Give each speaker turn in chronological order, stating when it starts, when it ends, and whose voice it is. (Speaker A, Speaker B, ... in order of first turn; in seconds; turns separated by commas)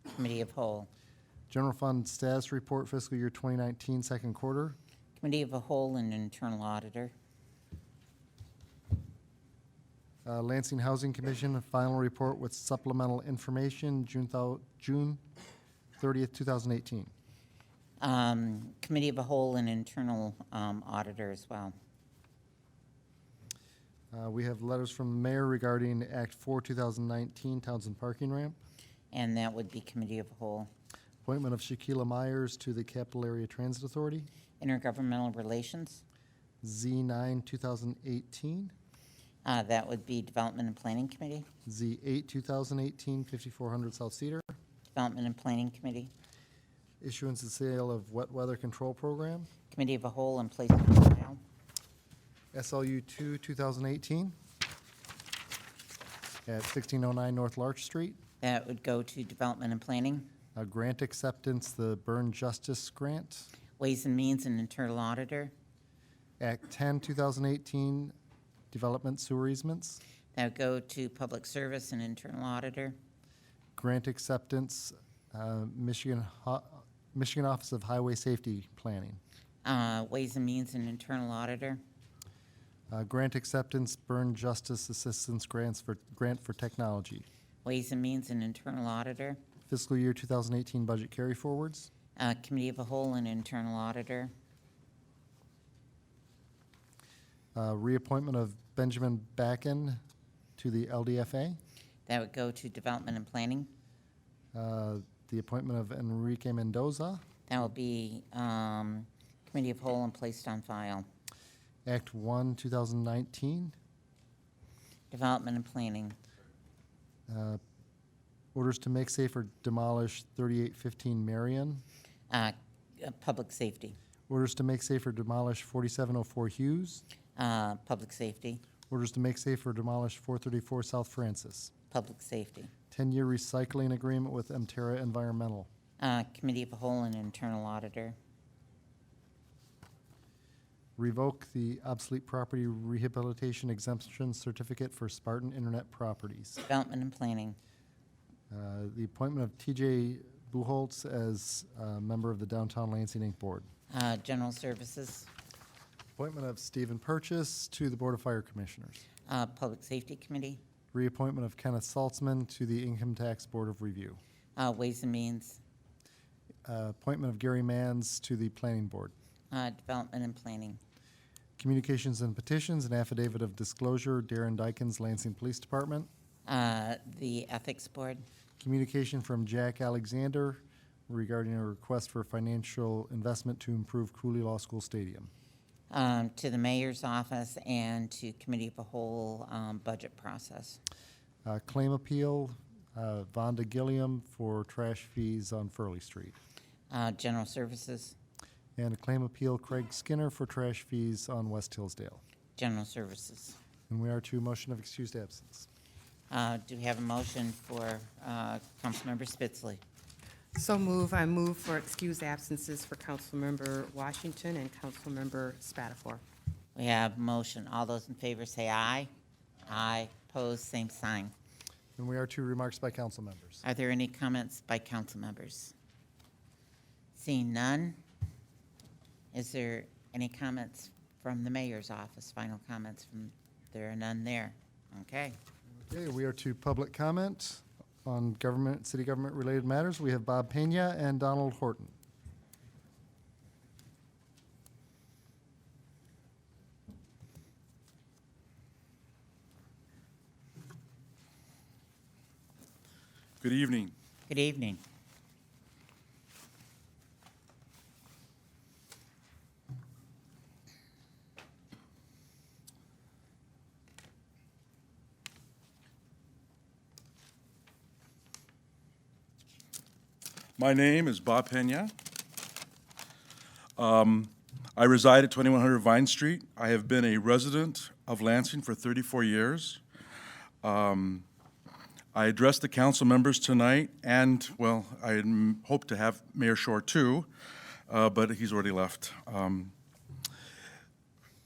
Speaker A: 0.1-0.9, Speaker B: 1.5-4.8, Speaker A: 5.2-7.1, Speaker B: 10.2-15.2, Speaker B: 16.0-17.1, Speaker A: 18.0-21.7, Speaker B: 24.1-28.6, Speaker A: 29.1-30.7, Speaker B: 31.2-34.3, Speaker A: 34.6-36.0, Speaker B: 36.6-38.7, Speaker A: 39.5-41.5, Speaker B: 41.7-44.6, Speaker A: 44.9-46.1, Speaker B: 47.0-49.5, Speaker A: 49.7-51.4, Speaker B: 52.5-54.3, Speaker B: 56.5-58.2, Speaker A: 58.4-60.3, Speaker B: 60.5-63.5, Speaker A: 63.8-65.5, Speaker B: 66.4-68.1, Speaker B: 68.7-70.0, Speaker A: 70.3-73.0, Speaker B: 73.8-79.2, Speaker A: 79.6-81.8, Speaker B: 82.9-87.2, Speaker A: 87.6-89.4, Speaker B: 89.7-91.9, Speaker A: 92.2-94.3, Speaker B: 97.5-100.0, Speaker B: 100.6-101.6, Speaker A: 102.1-103.7, Speaker B: 104.5-107.2, Speaker A: 107.5-111.1, Speaker B: 111.8-113.8, Speaker A: 115.1-116.2, Speaker B: 117.3-117.6, Speaker B: 118.5-121.8, Speaker A: 122.3-124.0, Speaker B: 124.3-127.0, Speaker A: 127.4-128.6, Speaker B: 128.9-131.7, Speaker A: 131.9-132.7, Speaker B: 132.9-135.7, Speaker A: 136.0-138.2, Speaker B: 141.0-146.6, Speaker A: 146.7-147.6, Speaker B: 148.5-153.7, Speaker A: 153.9-155.3, Speaker B: 156.2-159.0, Speaker A: 159.3-160.6, Speaker B: 160.9-164.2, Speaker A: 164.6-165.6, Speaker B: 166.7-169.1, Speaker A: 169.5-170.8, Speaker B: 171.6-176.1, Speaker A: 176.4-178.2, Speaker B: 178.6-185.3, Speaker A: 185.9-190.8, Speaker B: 191.4-196.4, Speaker A: 196.9-198.2, Speaker B: 198.8-202.2, Speaker A: 202.6-203.6, Speaker B: 203.9-205.7, Speaker A: 206.3-209.8, Speaker C: 210.5-216.2, Speaker A: 216.8-219.1, Speaker A: 219.7-221.3, Speaker B: 222.0-223.6, Speaker A: 223.6-225.7, Speaker A: 227.1-228.0, Speaker A: 229.3-235.4, Speaker B: 235.8-241.9, Speaker D: 253.4-253.9, Speaker A: 254.3-254.8, Speaker D: 270.6-271.9, Speaker D: 273.8-279.8, Speaker D: 280.6-281.2, Speaker D: 282.1-287.3, Speaker D: 287.9-289.7